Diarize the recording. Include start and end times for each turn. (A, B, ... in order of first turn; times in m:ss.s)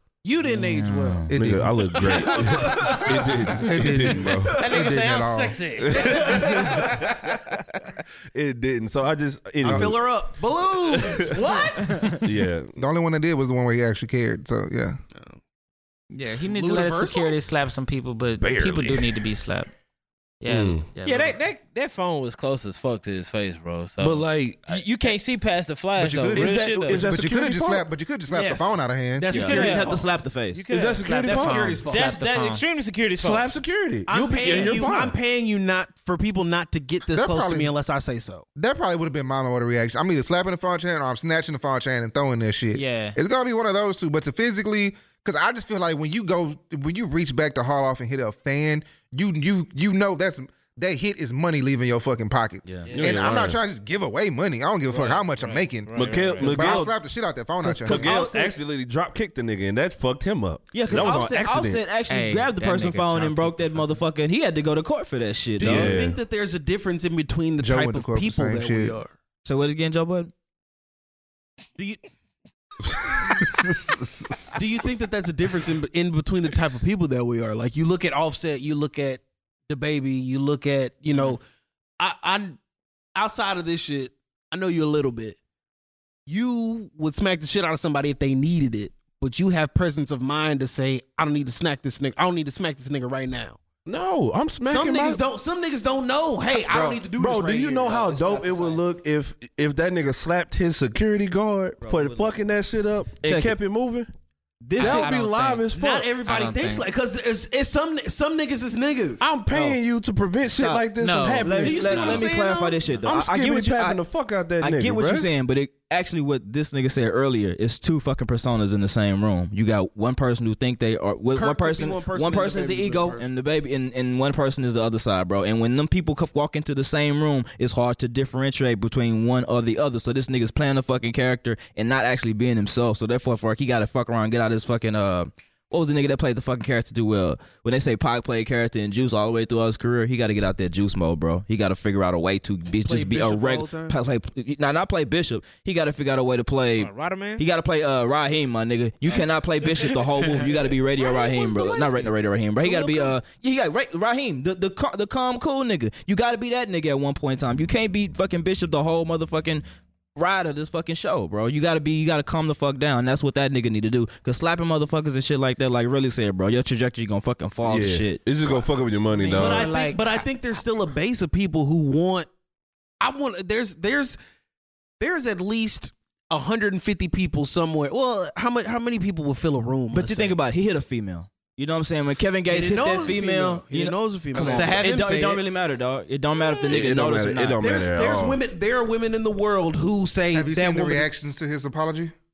0:00.2-0:01.3 A
0:00.4-0:01.3 B
0:01.3-0:02.3 C
0:01.3-0:04.6 D
0:02.0-0:03.3 A
0:03.5-0:05.7 C
0:04.6-0:06.5 E
0:05.8-0:07.6 D
0:05.9-0:06.5 A
0:08.3-0:10.2 D
0:09.6-0:12.1 A
0:09.6-0:09.9 C
0:10.9-0:11.4 D
0:12.2-0:12.8 D
0:12.8-0:15.0 C
0:16.1-0:19.7 F
0:16.4-0:17.4 A
0:18.4-0:19.2 D
0:20.4-0:21.4 F
0:20.5-0:20.9 D
0:21.0-0:27.0 E
0:24.0-0:24.7 D
0:26.0-0:29.3 C
0:26.3-0:27.8 D
0:28.3-0:30.1 A
0:29.3-0:33.6 E
0:29.3-0:30.7 B
0:29.4-0:29.7 D
0:30.7-0:31.8 D
0:31.0-0:32.6 F
0:31.2-0:32.2 A
0:33.2-0:35.1 D
0:34.0-0:38.4 A
0:37.1-0:37.7 C
0:38.6-0:58.1 C
0:42.7-0:43.2 F
0:52.6-0:52.9 B
0:52.9-0:53.3 E
0:52.9-0:53.6 D
0:54.9-0:56.6 E
0:55.9-0:56.9 D
0:56.4-0:56.9 B
0:57.6-0:58.5 B
0:57.7-1:01.8 D
1:00.7-1:06.0 B
1:02.1-1:04.0 F
1:05.6-1:09.1 A
1:05.6-1:06.2 D
1:07.6-1:09.0 C
1:09.4-1:10.3 B
1:11.8-1:12.0 A
1:14.5-1:21.4 A
1:22.0-1:22.6 A
1:23.1-1:25.4 A
1:26.3-1:33.6 A
1:33.8-1:35.2 D
1:34.6-1:38.4 A
1:37.0-1:44.1 D
1:37.8-1:38.8 B
1:41.8-1:42.3 B
1:43.2-1:43.6 B
1:44.6-1:45.1 B
1:44.8-1:46.1 D
1:44.8-1:45.6 F
1:45.7-1:49.3 A
1:46.2-1:46.9 F
1:49.2-1:52.2 D
1:49.5-1:49.8 B
1:50.6-1:50.8 B
1:51.0-1:52.3 F
1:51.4-1:54.0 B
1:51.7-1:52.9 A
1:53.0-1:55.3 D
1:54.6-2:39.6 B
2:01.3-2:03.2 A
2:22.8-2:23.9 A
2:26.8-2:27.4 E
2:30.2-2:30.5 E
2:31.0-2:32.1 A
2:32.6-2:33.2 A
2:40.1-2:48.2 B
2:47.6-2:49.8 D
2:49.1-2:50.2 F
2:49.3-2:52.3 A
2:53.0-2:54.2 A
2:55.0-3:00.4 A
2:59.9-3:07.6 B
3:02.4-3:05.4 A
3:04.3-3:04.7 C
3:06.7-3:08.4 D
3:07.6-3:11.1 A
3:10.3-3:12.1 C